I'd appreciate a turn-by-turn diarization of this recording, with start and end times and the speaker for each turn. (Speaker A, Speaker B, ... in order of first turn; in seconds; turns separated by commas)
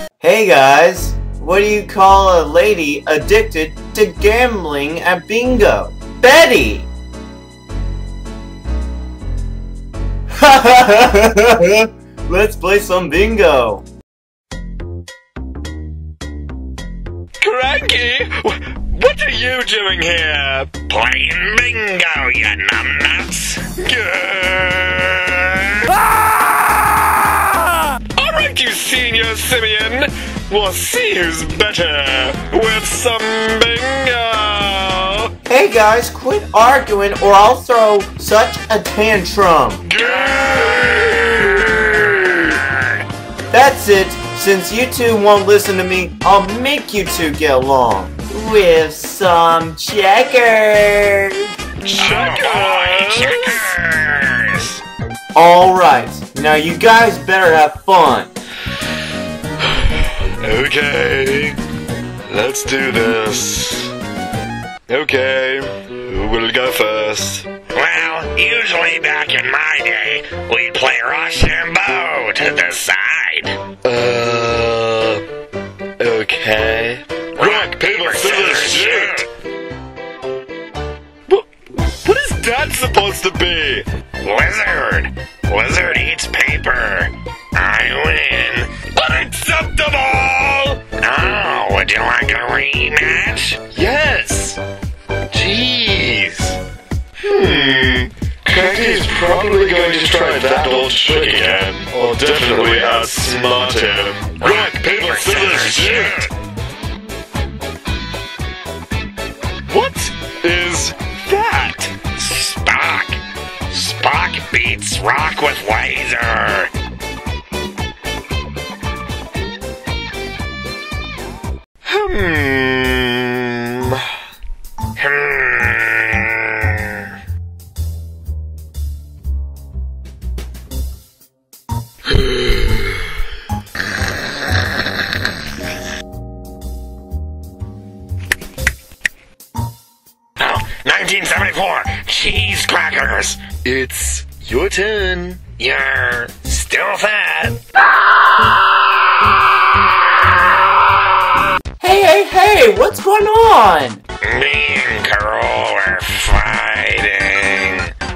Speaker A: 0.2-6.9, Speaker A: 10.3-13.8, Speaker B: 17.4-20.8, Speaker C: 20.9-23.7, Speaker B: 23.7-26.2, Speaker B: 28.1-35.3, Speaker A: 35.5-39.9, Speaker B: 39.9-42.6, Speaker C: 40.0-42.6, Speaker A: 43.5-51.4, Speaker B: 51.8-53.8, Speaker C: 52.0-54.8, Speaker A: 55.3-58.3, Speaker B: 60.4-61.6, Speaker B: 62.3-63.9, Speaker B: 64.9-67.5, Speaker C: 67.7-73.6, Speaker B: 73.8-75.2, Speaker B: 76.0-79.2, Speaker C: 77.3-79.3, Speaker B: 82.0-83.8, Speaker C: 84.2-93.7, Speaker B: 93.7-94.6, Speaker B: 95.3-96.6, Speaker B: 97.2-106.3, Speaker C: 100.6-101.6, Speaker C: 104.4-106.3, Speaker B: 109.7-112.0, Speaker C: 112.0-116.7, Speaker B: 121.8-124.1, Speaker C: 125.0-127.1, Speaker C: 140.4-143.6, Speaker B: 143.5-145.5, Speaker C: 145.5-147.6, Speaker A: 151.8-154.0, Speaker C: 154.2-157.9